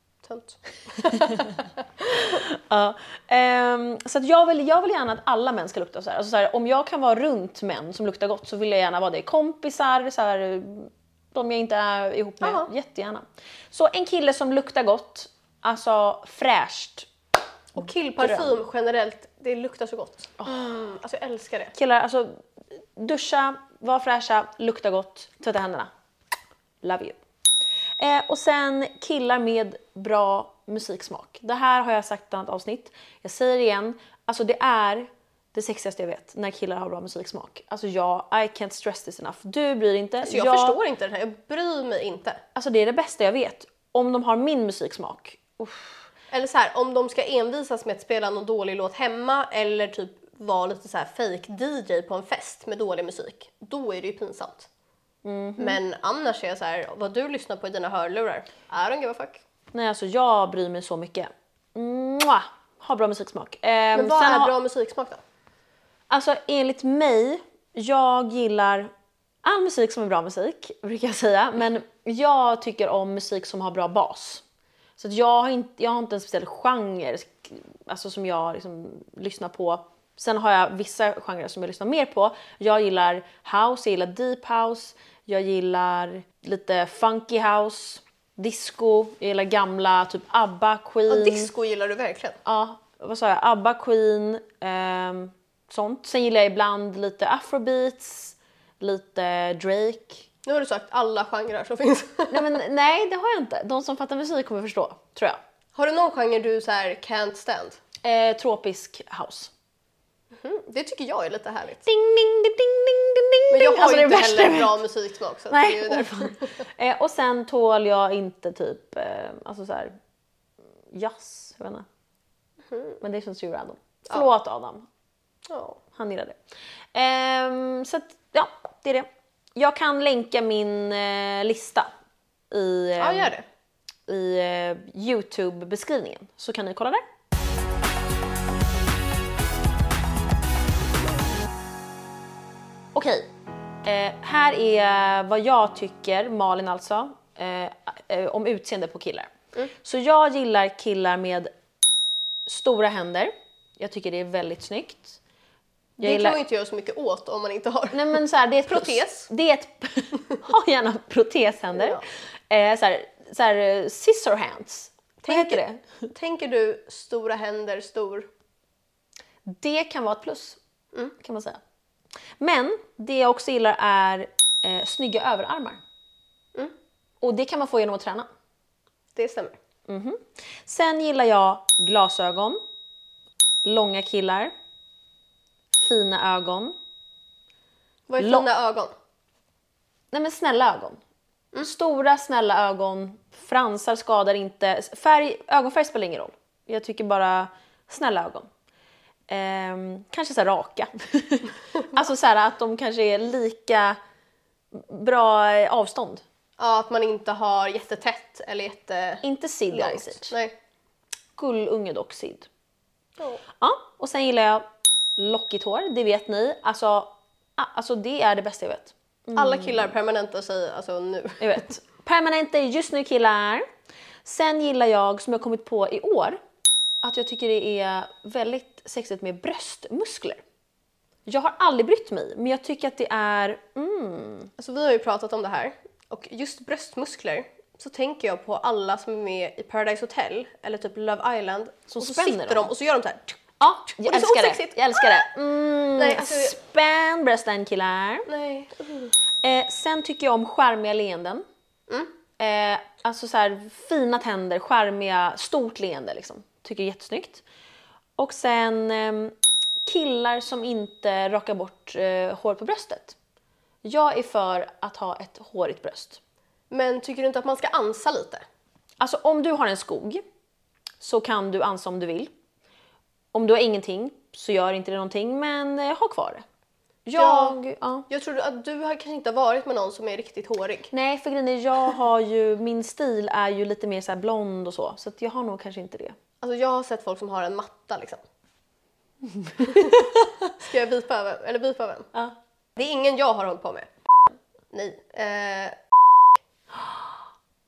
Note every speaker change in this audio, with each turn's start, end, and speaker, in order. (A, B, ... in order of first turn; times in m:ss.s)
0:00.2-0:01.7 A
0:01.0-0:17.1 B
0:12.4-0:12.7 A
0:17.8-0:21.7 A
0:18.2-0:18.6 B
0:20.4-0:20.7 B
0:21.7-0:22.4 B
0:23.0-0:25.9 B
0:26.8-0:27.2 B
0:28.0-0:40.8 B
0:40.2-0:42.4 A
0:42.6-0:46.1 B
0:46.3-0:54.7 A
0:55.2-0:55.8 B
0:55.6-0:59.4 A
0:59.7-1:04.5 B
1:04.0-1:05.2 A
1:06.1-1:08.9 B
1:09.4-1:14.4 B
1:15.0-1:31.5 B
1:31.1-1:32.4 A
1:32.4-1:40.3 B
1:40.4-1:42.5 A
1:42.3-1:45.4 B
1:45.8-1:47.8 A
1:48.0-1:49.5 B
1:50.3-1:51.9 A
1:51.8-1:54.8 B
1:53.5-1:56.6 A
1:55.5-1:59.9 B
2:00.9-2:01.9 B
2:02.7-2:03.0 A
2:03.0-2:04.9 B
2:05.5-2:05.8 A
2:05.9-2:06.4 B
2:06.9-2:11.9 B
2:12.5-2:13.3 B
2:13.0-2:13.4 A
2:14.1-2:17.0 B
2:23.0-2:23.3 B
2:23.8-2:31.5 B
2:32.5-2:35.2 B
2:36.0-2:36.4 B
2:36.0-2:38.1 A
2:37.9-2:46.1 B
2:38.7-2:39.3 A
2:41.8-2:42.0 A
2:45.2-2:48.3 A
2:49.5-2:50.6 B
2:51.2-2:51.6 B
2:52.4-2:55.8 B
2:57.2-2:58.3 B
2:59.2-2:59.6 A
2:59.9-3:02.6 B
3:03.6-3:04.5 B
3:05.7-3:06.8 B
3:08.1-3:08.9 A
3:08.2-3:08.5 B
3:10.1-3:11.0 B
3:11.6-3:18.5 B
3:19.3-3:24.0 B
3:24.7-3:26.2 B
3:26.6-3:30.6 A
3:29.2-3:30.3 B
3:31.4-3:32.5 B
3:33.6-3:34.6 B
3:35.2-3:39.9 B
3:39.4-3:41.7 A
3:41.4-3:43.7 B
3:44.2-3:46.4 B
3:47.0-3:50.4 B
3:51.3-3:54.5 B
3:54.6-4:03.4 A
4:01.9-4:02.7 B
4:03.6-4:08.3 B
4:04.0-4:05.3 A
4:06.0-4:06.6 A
4:08.3-4:09.2 A
4:09.4-4:11.4 B
4:12.4-4:17.4 B
4:18.2-4:23.2 B
4:23.8-4:26.2 B
4:26.7-4:28.4 A
4:29.0-4:30.2 B
4:31.0-4:32.3 B
4:33.3-4:36.4 B
4:37.1-4:38.1 B
4:37.2-4:37.6 A
4:38.1-4:40.9 A
4:40.9-4:46.2 B
4:46.4-4:48.2 A
4:49.3-4:50.5 B
4:49.6-4:50.1 A
4:50.6-4:52.1 A
4:52.8-4:53.9 A
4:54.7-4:55.8 A
4:56.7-4:57.2 B